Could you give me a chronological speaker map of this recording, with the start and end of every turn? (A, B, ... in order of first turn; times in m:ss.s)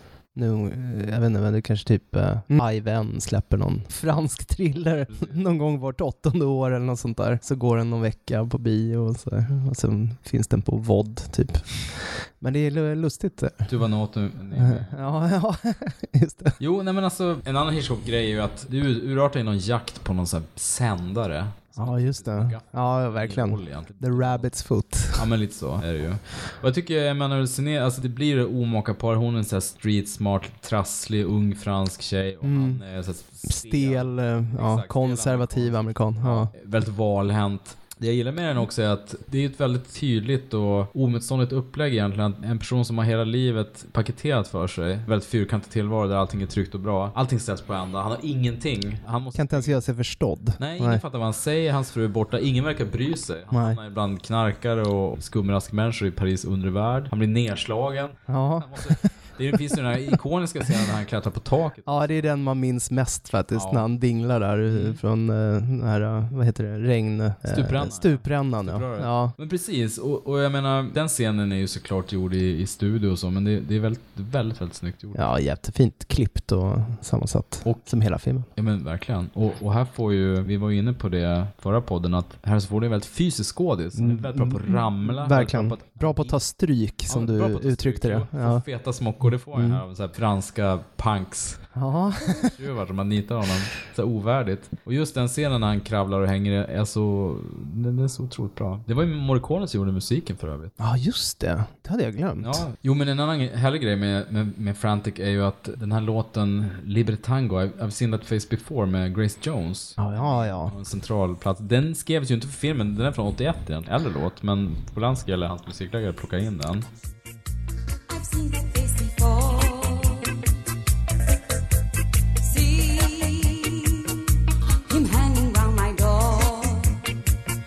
0:00.3-0:13.7 A
0:05.1-0:05.4 B
0:13.7-0:15.0 B
0:14.5-0:16.6 A
0:16.6-0:24.5 B
0:21.8-0:25.3 A
0:25.1-0:49.8 B
0:32.4-0:32.8 A
0:33.4-0:36.5 A
0:49.3-0:51.0 A
0:50.6-1:02.3 B
0:53.5-0:53.8 A
0:58.3-0:59.1 A
1:01.9-1:09.4 A
1:03.5-1:03.9 B
1:04.7-1:05.0 B
1:07.4-1:15.3 B
1:15.2-1:18.5 A
1:17.6-1:17.9 B
1:18.6-1:26.4 B
1:24.0-1:28.6 A
1:27.1-1:31.6 B
1:29.5-1:29.8 A
1:31.8-1:32.5 A
1:32.3-1:40.7 B
1:40.8-1:42.6 A
1:42.4-1:56.9 B
1:50.0-1:50.7 A
1:58.1-2:00.4 C
2:02.4-2:04.4 C
2:04.9-2:07.0 C